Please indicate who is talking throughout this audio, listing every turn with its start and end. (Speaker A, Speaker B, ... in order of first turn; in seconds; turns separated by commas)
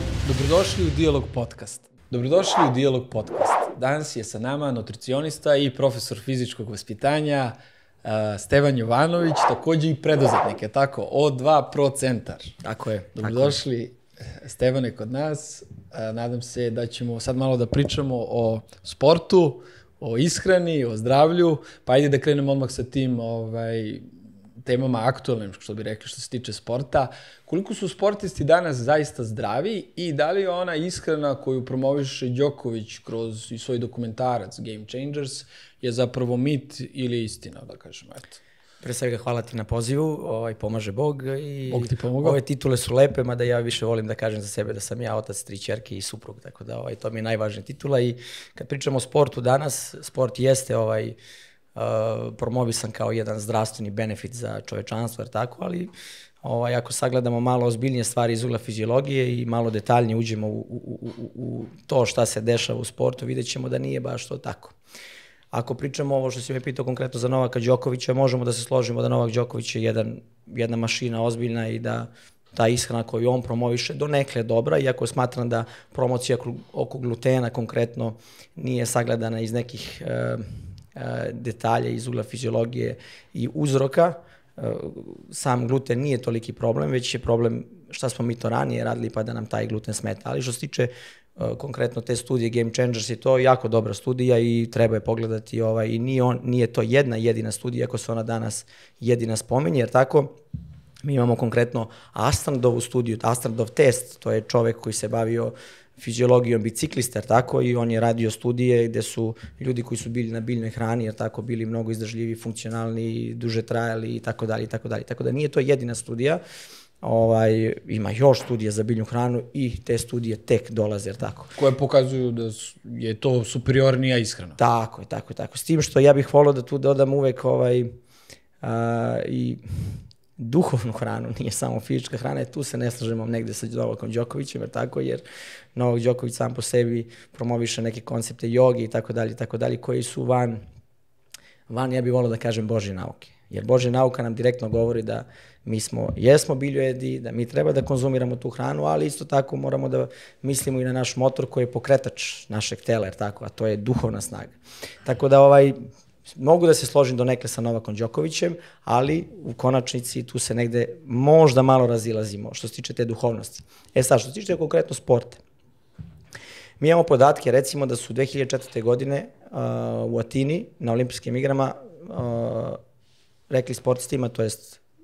Speaker A: 0.2-12.6, Speaker B: 12.6-13.6, Speaker A: 13.2-24.1, Speaker A: 24.6-38.4, Speaker B: 38.8-51.2, Speaker A: 41.7-42.4, Speaker B: 51.8-55.9, Speaker B: 56.4-64.8, Speaker B: 65.5-100.3, Speaker B: 101.0-116.4, Speaker B: 117.0-121.6, Speaker A: 121.6-124.6, Speaker B: 124.6-127.9, Speaker B: 128.6-129.6, Speaker B: 130.4-135.2, Speaker B: 135.8-140.6, Speaker B: 141.7-165.4, Speaker B: 166.8-172.8, Speaker B: 173.5-174.8